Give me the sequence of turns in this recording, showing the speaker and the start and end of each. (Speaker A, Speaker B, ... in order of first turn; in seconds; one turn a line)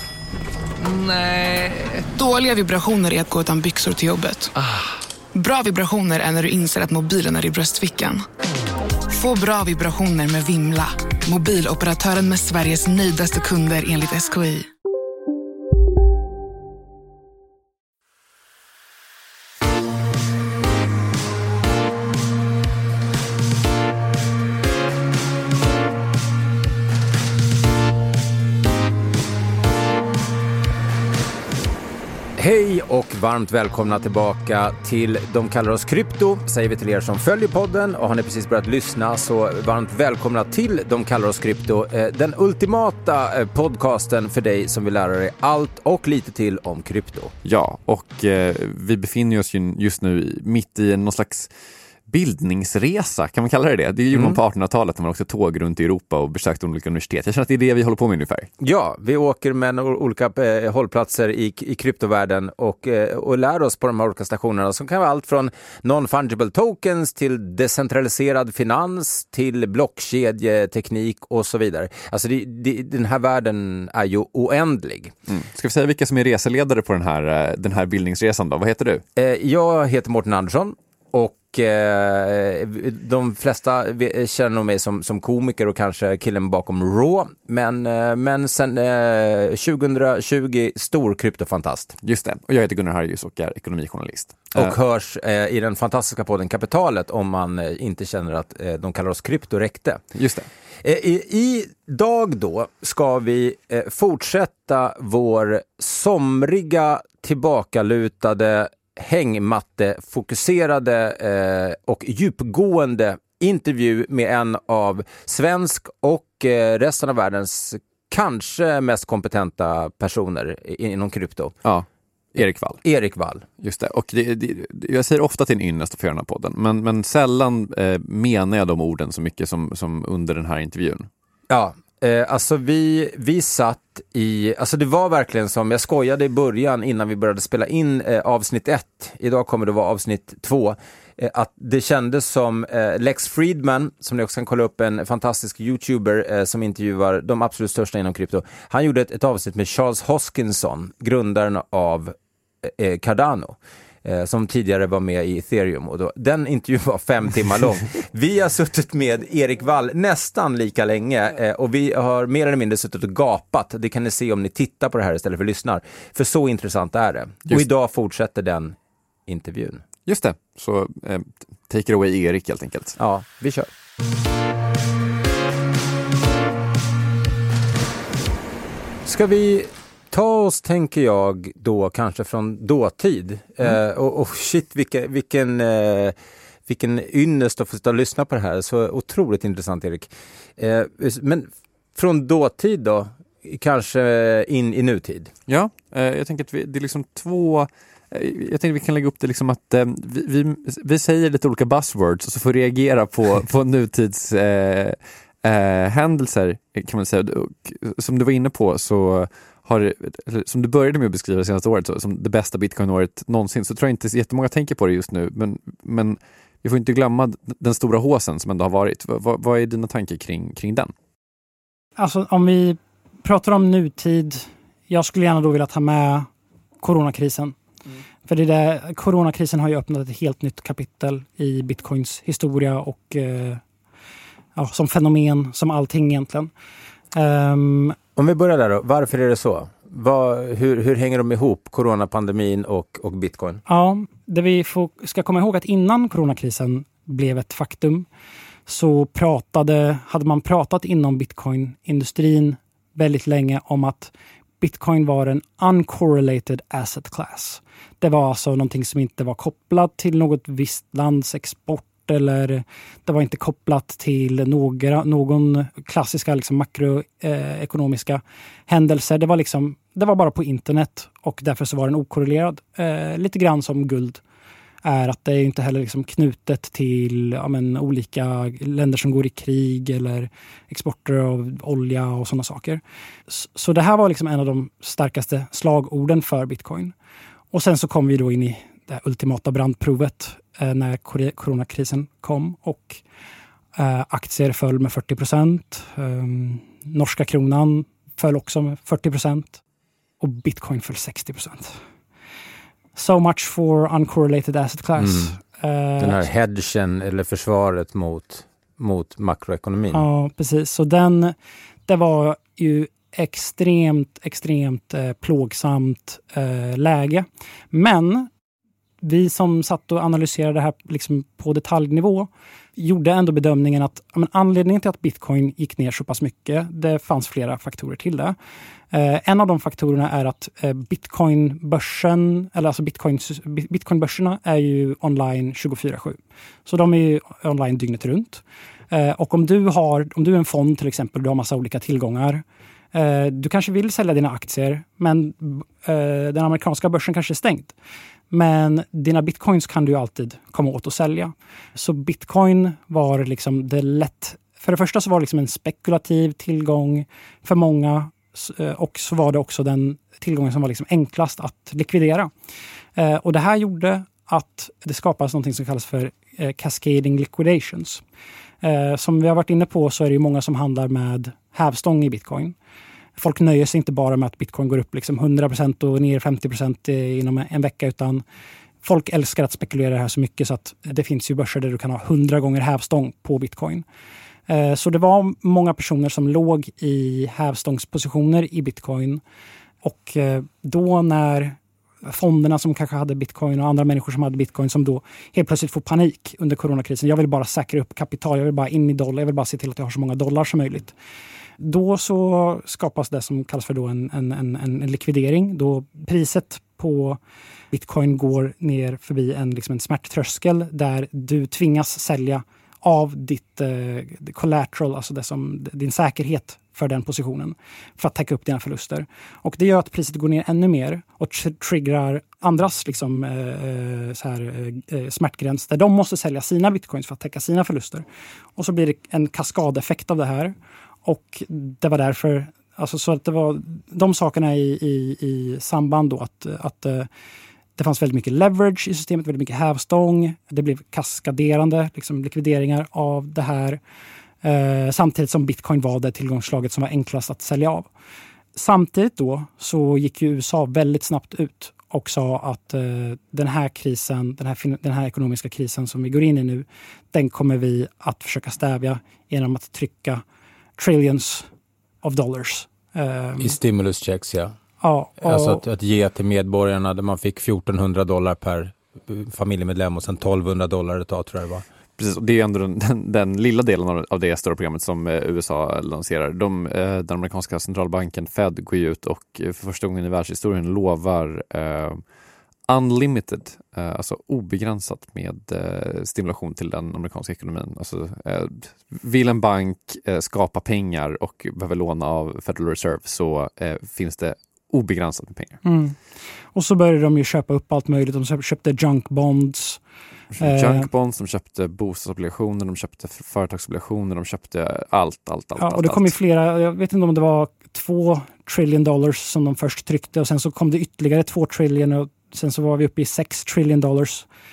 Speaker A: 0.8-4.6
Speaker A: 5.3-8.2
Speaker A: 9.1-14.7
Speaker B: 32.4-47.3
Speaker C: 47.4-51.5
Speaker C: 52.1-58.5
Speaker B: 54.1-54.4
Speaker B: 58.6-75.1
Speaker C: 75.3-79.0
Speaker B: 79.2-92.0
Speaker C: 92.0-94.7
Speaker B: 94.5-100.0
Speaker C: 100.1-100.5
Speaker B: 100.8-121.5
Speaker C: 121.6-122.8
Speaker B: 122.8-123.4
Speaker C: 123.6-131.1
Speaker B: 131.5-168.8
Speaker B: 169.3-169.8
Speaker C: 170.1-173.0
Speaker B: 173.0-173.7
Speaker B: 179.0-186.1
Speaker B: 186.7-195.3
Speaker C: 195.5-220.9
Speaker D: 222.0-226.3
Speaker D: 226.8-227.6
Speaker D: 228.2-233.6
Speaker D: 234.6-236.5
Speaker D: 237.1-238.0
Speaker B: 238.2-243.6
Speaker D: 243.7-248.1
Speaker D: 248.7-274.2
Speaker D: 274.8-286.9
Speaker D: 287.5-293.0
Speaker D: 293.8-299.6
Speaker D: 300.2-301.8
Speaker D: 302.9-306.3
Speaker B: 305.0-305.3
Speaker B: 306.0-310.0
Speaker D: 309.9-311.3
Speaker D: 311.9-318.3
Speaker D: 319.0-328.4
Speaker D: 328.9-347.7
Speaker D: 348.3-362.3
Speaker D: 362.9-368.0
Speaker D: 368.6-372.5
Speaker D: 373.2-378.2
Speaker D: 378.8-383.8
Speaker D: 384.5-389.2
Speaker D: 389.8-400.9
Speaker D: 401.6-407.2
Speaker D: 407.7-428.0
Speaker D: 428.6-430.5
Speaker D: 431.0-437.1
Speaker D: 437.8-443.8
Speaker D: 444.4-447.9
Speaker D: 448.5-460.2
Speaker D: 460.8-461.5
Speaker D: 462.0-463.6
Speaker B: 463.4-464.5
Speaker D: 464.8-465.6
Speaker B: 465.2-471.6
Speaker C: 472.0-482.0
Speaker C: 482.7-495.6
Speaker D: 495.6-496.0
Speaker D: 496.5-499.8
Speaker C: 500.3-506.1
Speaker D: 500.4-500.9
Speaker D: 505.6-514.3